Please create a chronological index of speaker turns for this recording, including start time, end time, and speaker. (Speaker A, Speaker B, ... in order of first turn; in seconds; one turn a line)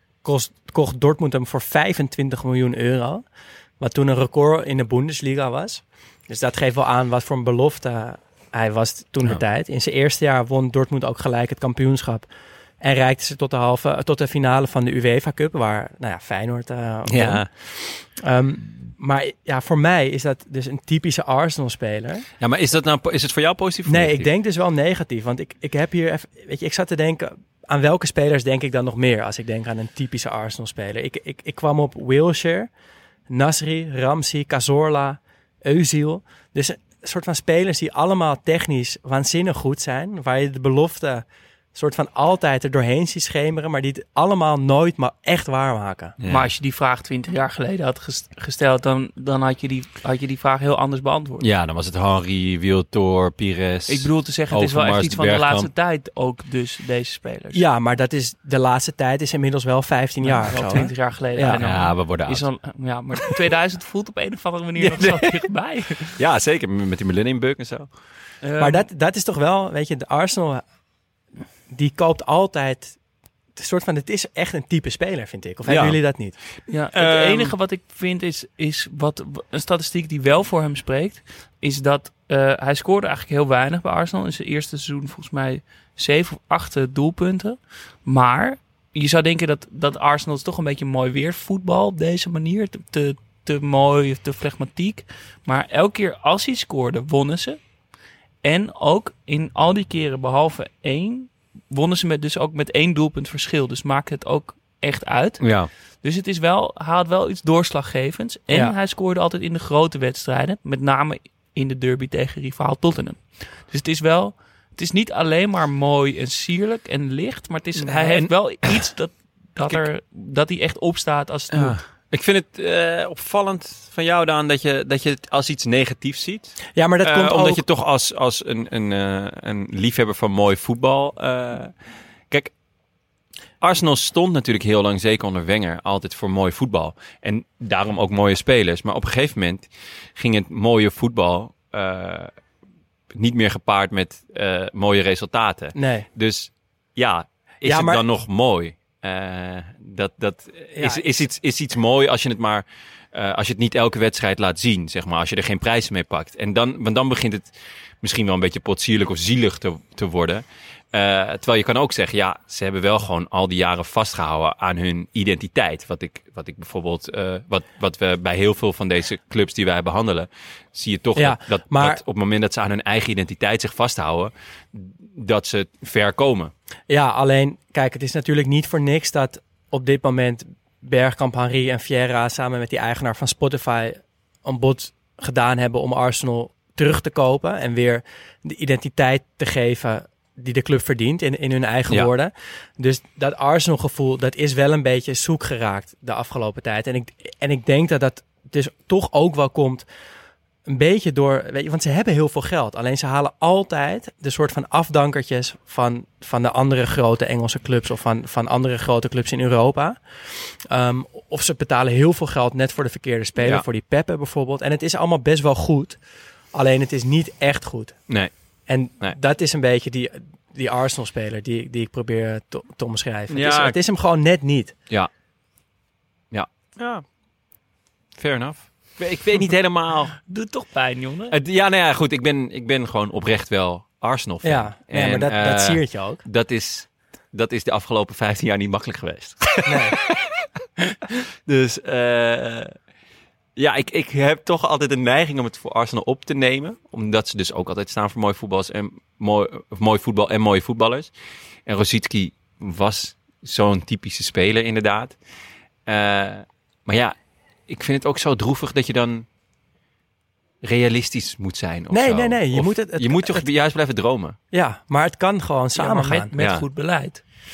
Speaker A: 0.2-3.2
Speaker A: 3.8-12.3
Speaker A: 12.8-22.3
Speaker B: 17.1-17.5
Speaker B: 22.4-24.3
Speaker A: 23.9-32.7
Speaker A: 33.3-46.2
Speaker B: 46.2-46.5
Speaker C: 46.3-51.5
Speaker B: 51.4-55.7
Speaker C: 53.9-57.6
Speaker A: 57.5-61.6
Speaker C: 60.2-66.2
Speaker B: 60.5-60.8
Speaker B: 61.6-62.5
Speaker B: 64.8-65.5
Speaker B: 66.2-67.9
Speaker C: 68.4-68.9
Speaker A: 68.6-70.6
Speaker A: 71.7-73.0
Speaker A: 73.6-76.4
Speaker B: 75.7-76.0
Speaker C: 76.7-97.6
Speaker B: 76.9-77.5
Speaker C: 98.4-121.8
Speaker B: 105.4-105.7
Speaker A: 108.5-108.8
Speaker B: 121.5-131.7
Speaker A: 126.8-127.7
Speaker B: 133.6-142.3
Speaker B: 143.2-176.5
Speaker A: 145.8-146.1
Speaker A: 147.7-148.0
Speaker A: 150.7-151.1
Speaker A: 171.2-172.0
Speaker A: 176.9-199.8
Speaker A: 200.7-216.0
Speaker B: 213.4-213.7
Speaker A: 216.5-218.1
Speaker A: 218.7-224.8
Speaker B: 223.3-223.8
Speaker B: 226.3-227.1
Speaker B: 228.2-230.2
Speaker C: 230.3-231.3
Speaker B: 231.3-240.4
Speaker A: 234.4-236.2
Speaker A: 239.7-240.0
Speaker B: 241.4-242.8
Speaker B: 243.6-251.1
Speaker B: 251.7-255.2
Speaker B: 255.9-257.2
Speaker B: 257.7-259.3
Speaker B: 260.6-264.4
Speaker A: 261.9-263.5
Speaker A: 264.5-266.3
Speaker C: 265.8-267.2
Speaker B: 266.4-266.6